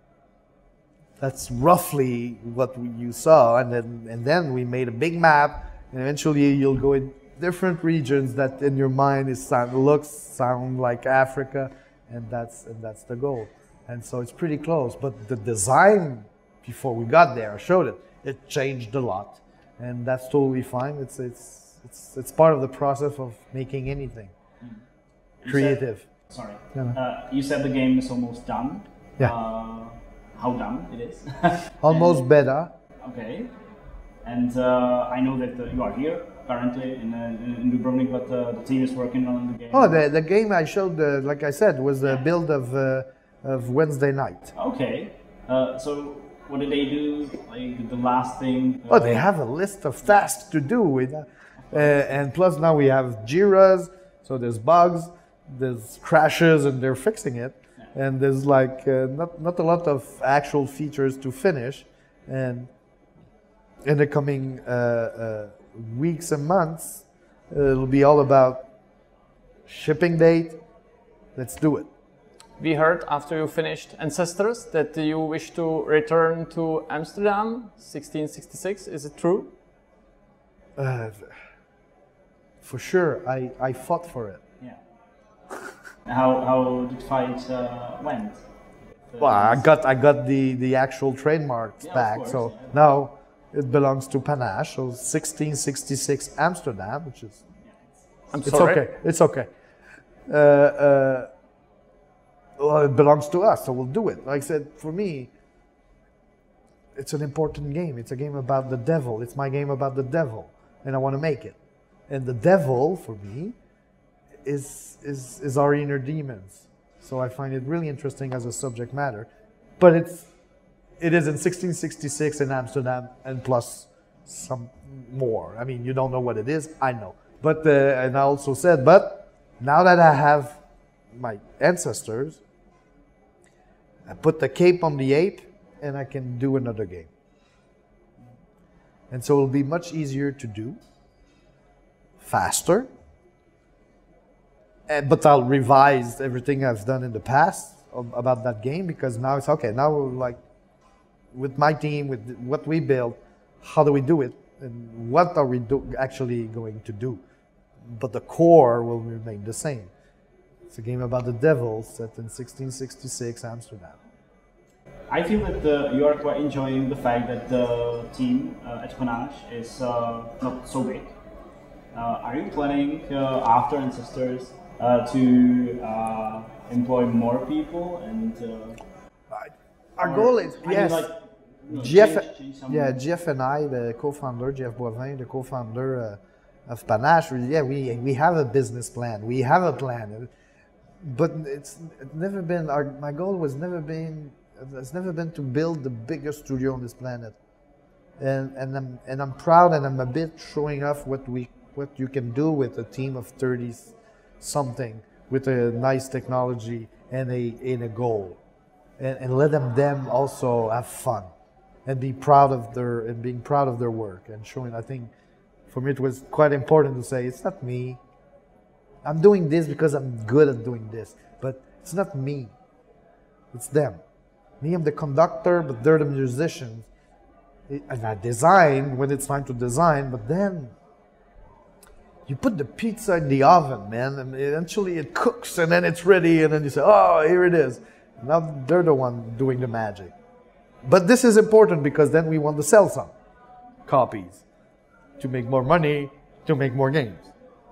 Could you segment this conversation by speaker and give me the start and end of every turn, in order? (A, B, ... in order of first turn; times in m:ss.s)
0:01.2-0:24.3 A
0:25.4-0:32.2 B
0:25.4-0:26.1 A
0:31.8-0:32.7 A
0:33.0-0:33.5 B
0:34.2-0:40.0 B
0:39.7-0:44.5 A
0:44.5-0:49.2 B
0:48.9-1:02.7 A
0:51.7-0:52.1 B
1:03.8-1:08.7 A
1:09.6-1:10.6 A
1:11.3-1:11.9 A
1:12.6-1:19.5 C
1:20.8-1:21.3 A
1:22.6-1:24.4 A
1:26.0-1:28.4 B
1:29.1-1:29.6 B
1:29.2-1:37.4 A
1:31.8-1:32.7 B
1:37.6-1:37.9 B
1:38.3-1:38.9 C
1:38.4-1:39.5 A
1:40.3-1:41.3 A
1:42.6-1:45.3 A
1:46.9-1:51.6 A
1:52.1-1:53.6 A
1:54.4-2:00.3 A
2:01.0-2:10.6 A
2:11.1-2:12.4 A
2:14.0-2:17.1 A
2:19.1-2:20.8 A
2:22.2-2:22.9 A
2:24.9-2:30.4 A
2:31.3-2:37.2 A
2:37.9-2:39.9 A
2:40.7-2:44.0 A
2:45.1-2:51.1 B
2:51.9-2:58.8 B
2:59.3-3:01.1 A
3:00.0-3:02.9 B
3:01.7-3:10.3 A
3:11.0-3:17.4 A
3:18.2-3:28.4 A
3:29.0-3:31.3 A
3:31.8-3:35.1 A
3:35.7-3:38.0 A
3:39.0-3:42.5 A
3:43.5-3:44.0 A
3:44.6-3:46.9 A
3:47.7-3:50.7 A
3:52.2-4:00.1 A
4:00.8-4:03.1 A
4:03.8-4:04.4 A
4:05.2-4:07.3 A